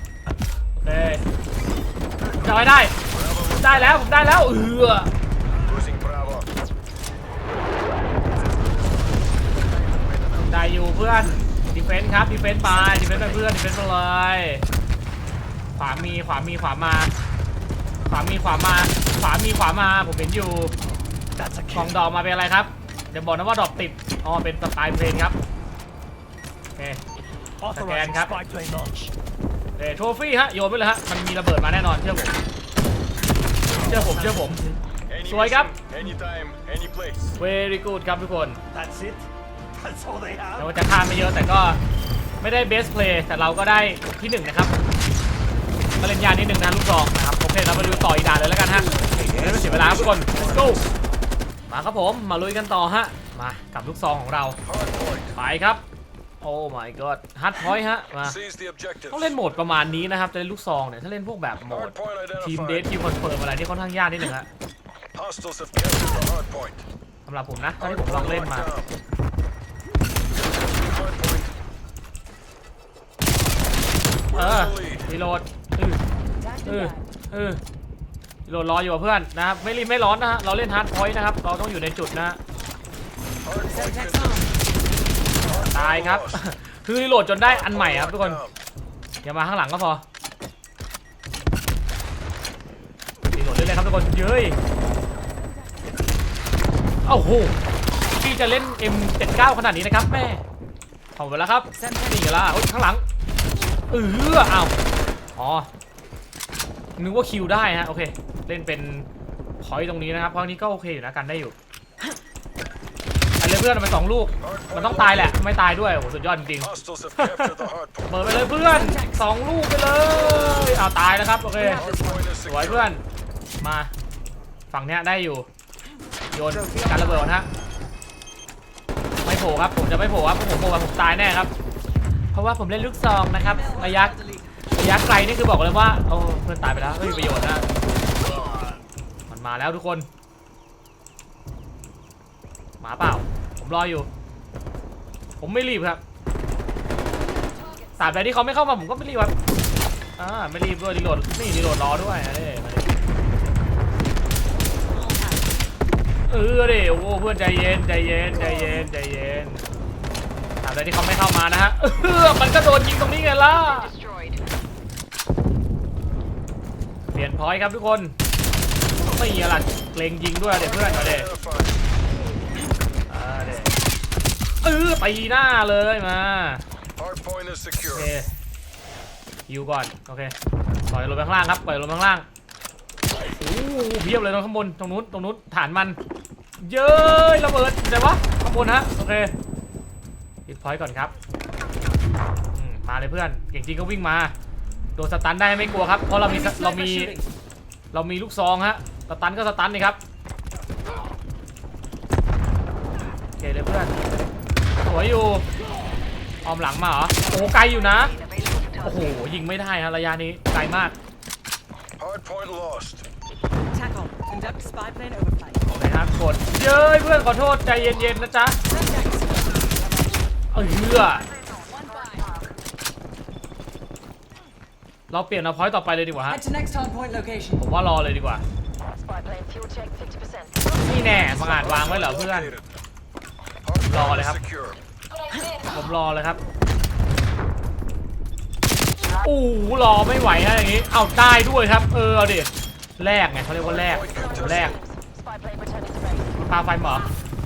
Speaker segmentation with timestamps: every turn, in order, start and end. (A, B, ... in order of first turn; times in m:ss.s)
0:00.8-0:01.2 A
0:02.4-0:03.0 A
0:03.2-0:03.6 B
0:03.5-0:05.1 A
0:05.7-0:06.5 B
0:10.3-0:14.6 A
0:15.8-0:17.1 A
0:18.1-0:20.7 A
0:21.4-0:22.0 C
0:21.7-0:25.4 A
0:27.6-0:29.1 C
0:27.7-0:28.4 A
0:29.8-0:32.4 A
0:33.7-0:34.7 A
0:33.8-0:34.8 C
0:35.1-0:37.4 B
0:35.3-0:35.7 A
0:37.4-0:38.6 A
0:38.7-0:40.8 C
0:40.6-0:41.8 A
0:42.4-0:44.7 A
0:46.0-0:50.8 A
0:48.9-0:50.2 C
0:50.0-0:50.5 B
0:51.7-0:54.6 A
0:54.7-0:55.3 B
0:55.4-0:55.8 A
0:56.4-0:58.4 A
0:58.4-0:59.1 B
0:59.1-1:04.5 A
1:01.9-1:02.8 B
1:05.2-1:06.8 B
1:07.3-1:08.7 A
1:07.8-1:08.8 B
1:10.6-1:11.5 B
1:14.3-1:16.0 A
1:14.4-1:15.0 B
1:16.4-1:16.7 D
1:16.6-1:17.6 A
1:18.5-1:22.4 A
1:23.5-1:24.4 B
1:23.9-1:24.5 D
1:25.4-1:26.2 B
1:25.5-1:28.4 A
1:27.5-1:28.5 B
1:29.2-1:30.0 A
1:33.3-1:34.6 A
1:37.0-1:37.6 A
1:38.1-1:40.4 A
1:41.2-1:43.0 A
1:43.9-1:44.7 A
1:45.4-1:45.7 A
1:47.0-1:49.1 A
1:49.6-1:51.6 A
1:53.4-2:03.0 A
1:54.5-1:55.2 B
1:56.8-1:58.1 B
2:01.8-2:02.7 B
2:03.6-2:03.9 A
2:04.7-2:05.5 A
2:06.3-2:07.5 A
2:09.2-2:11.5 A
2:12.3-2:17.7 A
2:13.7-2:14.5 D
2:19.3-2:20.1 A
2:22.8-2:24.1 A
2:25.4-2:26.0 A
2:28.0-2:29.4 A
2:30.2-2:33.0 A
2:36.3-2:39.6 A
2:40.6-2:43.9 A
2:43.9-2:44.4 E
2:47.1-2:48.2 A
2:49.0-2:51.3 A
2:50.7-2:51.7 B
2:53.1-2:53.8 A
2:54.6-2:56.6 A
2:57.0-2:57.9 B
2:57.8-2:58.3 A
2:59.5-3:00.4 A
3:00.9-3:02.3 A
3:03.3-3:06.0 A
3:06.6-3:09.3 A
3:10.5-3:11.1 A
3:12.5-3:14.3 A
3:15.0-3:17.2 A
3:16.8-3:17.2 D
3:17.9-3:20.0 A
3:23.4-3:23.9 A
3:24.8-3:25.5 A
3:26.4-3:28.2 A
3:28.1-3:28.8 E
3:28.8-3:31.0 A
3:32.0-3:33.0 B
3:33.7-3:35.6 D
3:35.7-3:38.6 A
3:38.7-3:39.5 D
3:40.5-3:41.3 A
3:41.7-3:42.2 D
3:45.1-3:46.5 A
3:46.4-3:47.6 D
3:47.6-3:48.4 A
3:49.1-3:50.6 E
3:50.7-3:52.5 A
3:51.3-3:52.6 B
3:53.7-3:54.8 B
3:53.9-3:54.5 A
3:55.5-3:56.4 A
3:59.2-4:04.8 A
4:04.0-4:04.4 B
4:04.8-4:06.2 E
4:06.4-4:07.1 A